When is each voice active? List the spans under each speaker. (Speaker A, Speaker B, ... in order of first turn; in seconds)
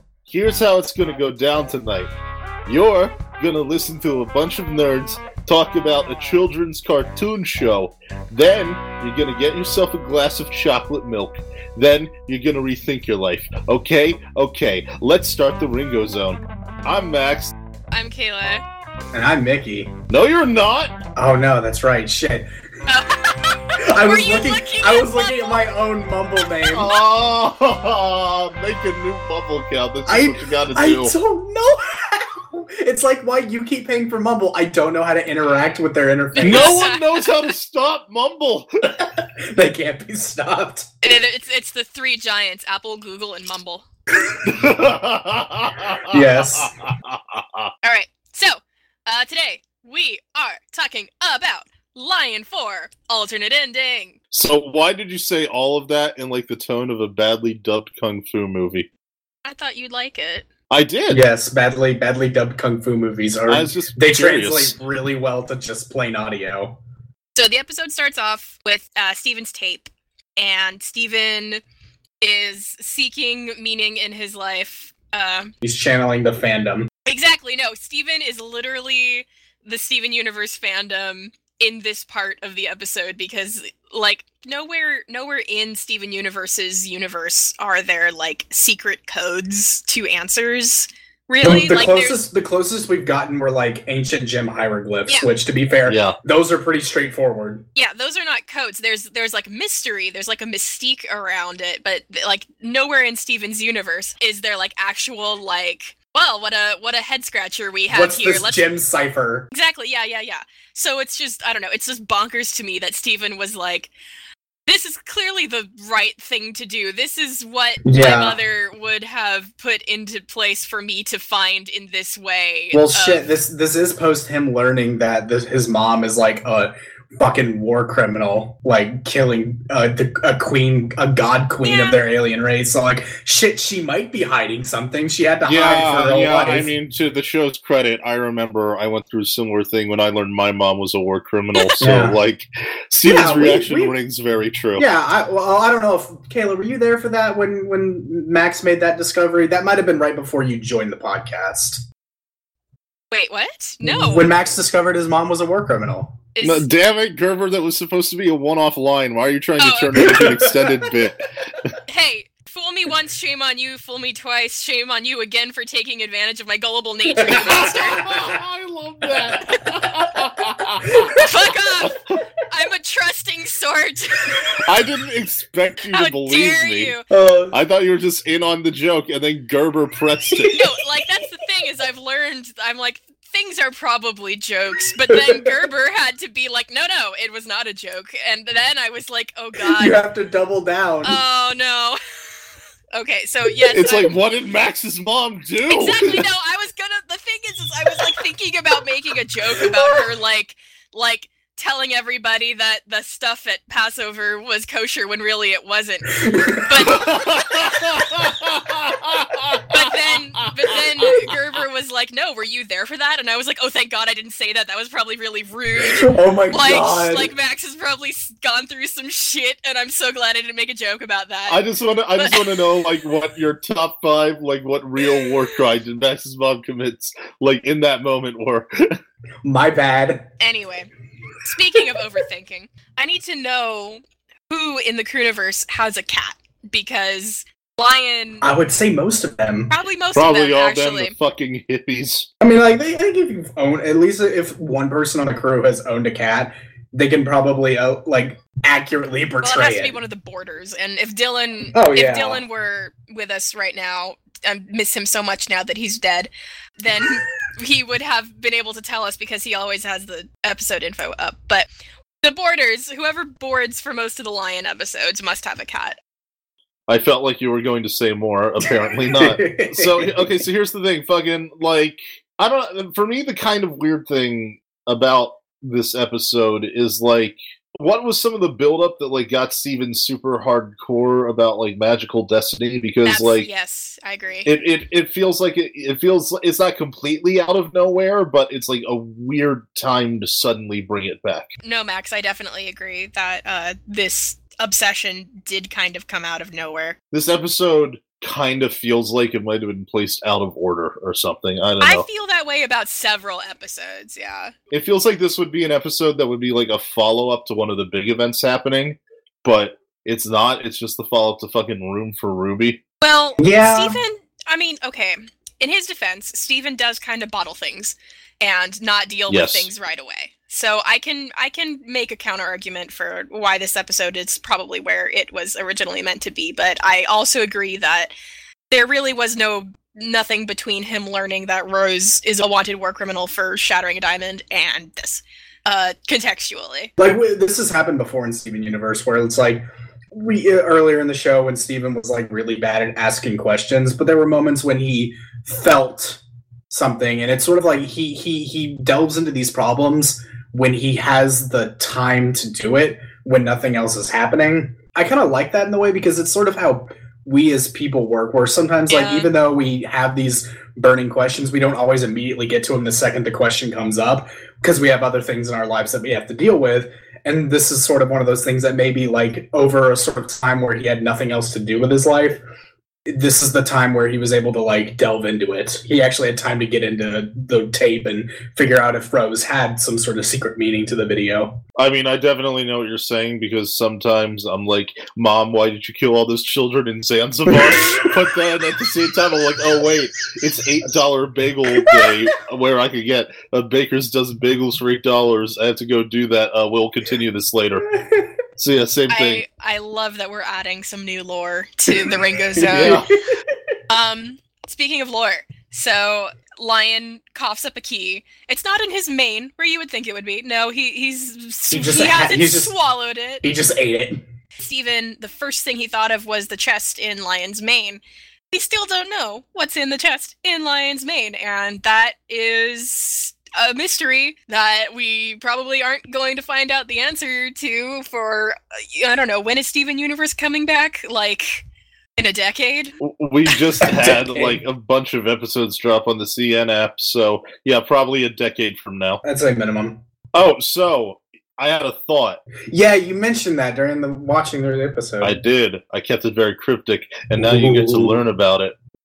Speaker A: 0.2-2.1, 2.7-17.5, 20.1-21.0, 26.7-31.1, 36.4-38.9, 44.5-47.7, 54.3-58.9, 60.7-61.2, 63.5-64.8, 95.9-96.2, 135.4-144.9, 156.4-161.7, 167.3-171.2, 171.8-172.2, 174.7-176.9, 177.5-180.6, 193.7-196.2, 206.8-209.8, 210.4-211.1, 221.5-229.0, 240.1-242.3, 266.9-283.5, 284.4-291.5, 297.1-302.1, 304.7-312.8, 319.3-319.7, 381.8-397.9, 398.6-399.4, 402.7-403.1, 433.0-439.2, 440.3-442.4, 445.2-448.8
Speaker B: 17.9-18.6, 22.9-25.7, 35.5-35.8, 36.3-37.5, 41.0-43.8, 47.8-54.2, 59.5-60.5, 67.3-71.6, 72.2-75.5, 77.1-92.2, 97.8-108.7, 109.5-113.9, 114.7-123.3, 131.6-132.0, 153.1-154.3, 156.3-156.7, 159.6-160.1, 161.9-168.0, 171.2-172.0, 172.5-174.6, 175.9-177.1, 180.5-190.0, 191.0-192.0, 192.9-194.2, 195.7-208.0, 209.7-222.9, 230.4-230.9, 231.4-238.5, 239.7-241.2, 249.4-261.7, 262.2-266.0, 283.0-284.5, 291.6-297.0, 301.8-304.5, 313.0-328.1, 328.7-336.9, 358.9-359.3, 399.1-403.0, 403.9-413.4, 414.6-431.6, 432.2-432.9
Speaker C: 19.1-19.9, 21.2-22.5, 23.8-26.9, 30.1-36.8, 39.0-40.9, 46.1-46.8, 61.1-66.8, 75.6-76.9, 91.4-97.7, 107.9-109.5, 117.8-118.4, 122.7-136.7, 141.8-142.2, 143.0-144.0, 144.8-151.8, 153.8-156.2, 159.9-160.9, 167.2-168.4, 169.2-171.3, 177.1-177.6, 180.3-180.7, 185.1-185.4, 189.6-191.2, 206.2-207.1, 215.8-217.3, 229.4-230.3, 238.4-239.7, 242.4-250.0, 251.7-252.4, 268.6-270.4, 313.4-314.0, 337.0-372.4, 373.1-381.6, 387.5-388.1, 391.8-392.2, 397.9-398.3, 401.9-403.5, 411.7-412.7, 413.4-414.2, 433.8-434.6, 439.2-440.0, 442.7-445.4, 447.4-448.2